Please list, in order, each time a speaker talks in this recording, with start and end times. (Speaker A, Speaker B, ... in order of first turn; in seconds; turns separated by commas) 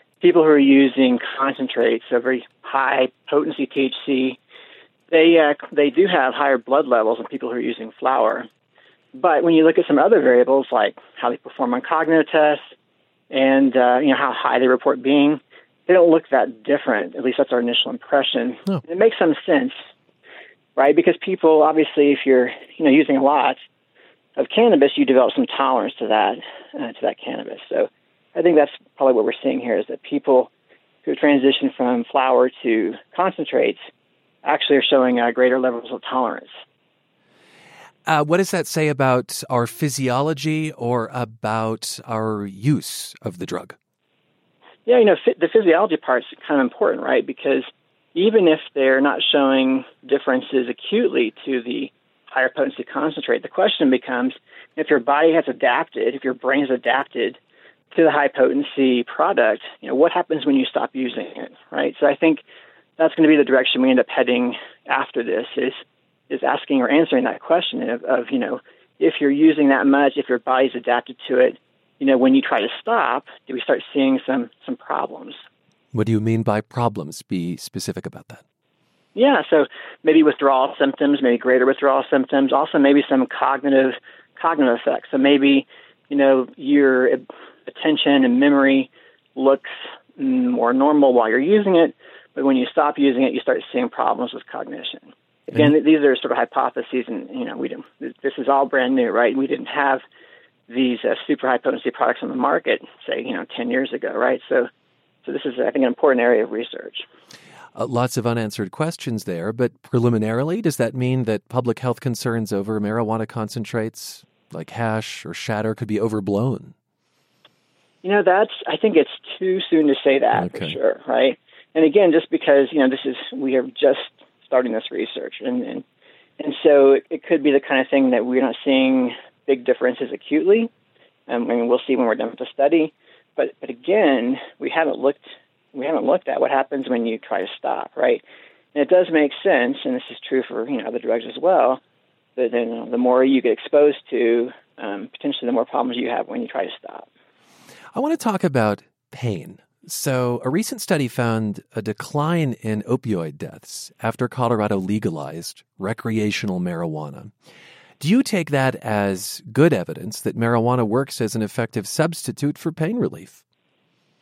Speaker A: 0.2-4.4, Speaker A: 5.1-8.5, Speaker A: 9.1-12.7, Speaker A: 13.3-19.8, Speaker A: 20.8-23.6, Speaker A: 24.4-30.5, Speaker A: 31.0-33.8, Speaker A: 34.4-36.5, Speaker B: 38.0-43.8, Speaker A: 44.9-57.4, Speaker A: 57.9-62.4, Speaker A: 63.0-75.4, Speaker B: 75.9-78.4, Speaker A: 79.1-100.0, Speaker A: 100.7-104.7, Speaker A: 105.2-107.0, Speaker B: 107.7-116.7, Speaker A: 118.0-125.8, Speaker B: 120.3-120.8, Speaker A: 126.4-130.7, Speaker A: 131.3-138.2, Speaker A: 138.7-141.8, Speaker A: 142.4-147.1, Speaker B: 147.9-157.3, Speaker B: 158.0-163.4